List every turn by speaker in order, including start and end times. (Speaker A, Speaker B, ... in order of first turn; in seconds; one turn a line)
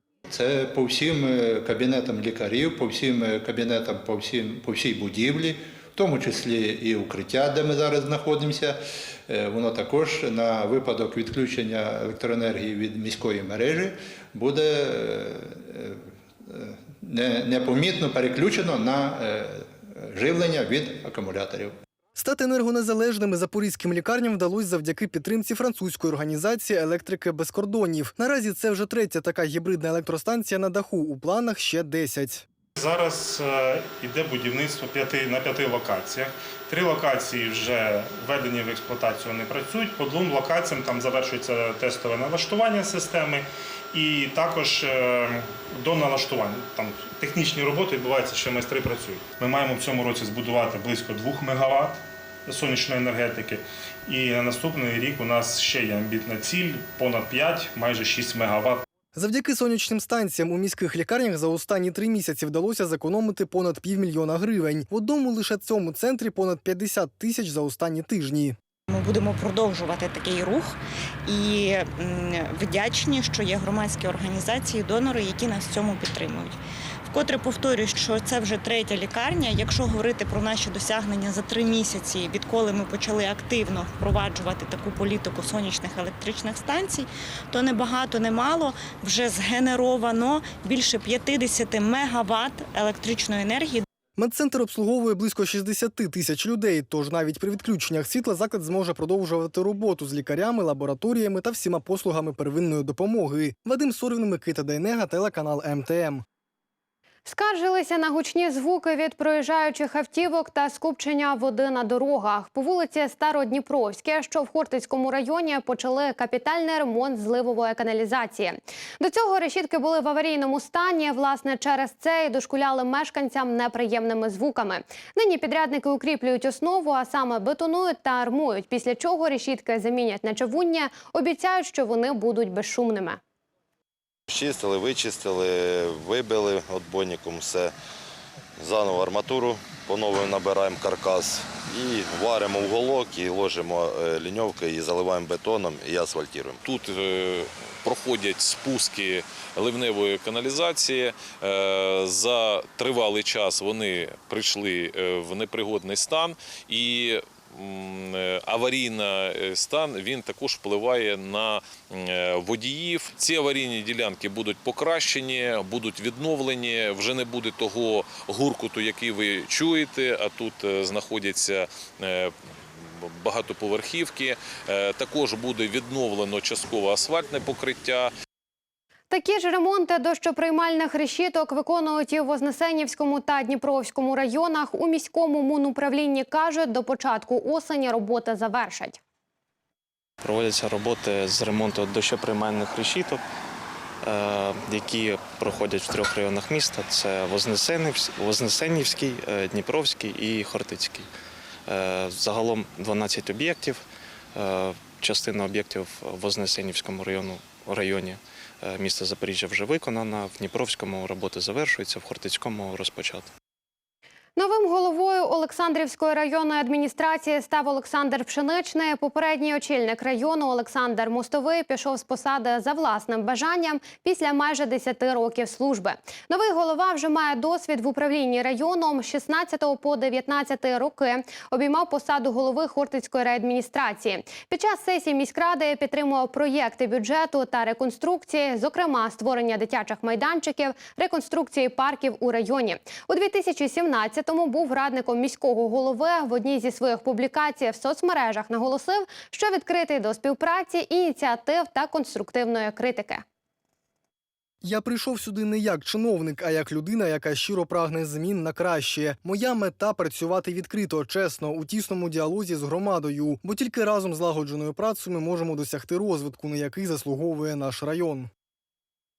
Speaker A: 0.3-16.0
Speaker A: 16.5-21.8
Speaker B: 22.2-32.5
Speaker C: 32.8-58.9
Speaker B: 59.1-68.6
Speaker D: 68.9-76.6
Speaker D: 77.1-93.8
Speaker B: 94.2-106.2
Speaker E: 107.3-133.2
Speaker F: 134.3-137.7
Speaker F: 138.6-146.6
Speaker G: 146.7-172.3
Speaker G: 173.0-178.1
Speaker E: 179.1-189.0
Speaker H: 190.2-193.2
Speaker H: 194.0-201.1
Speaker H: 201.7-213.3
Speaker E: 214.4-253.2
Speaker B: 254.6-268.3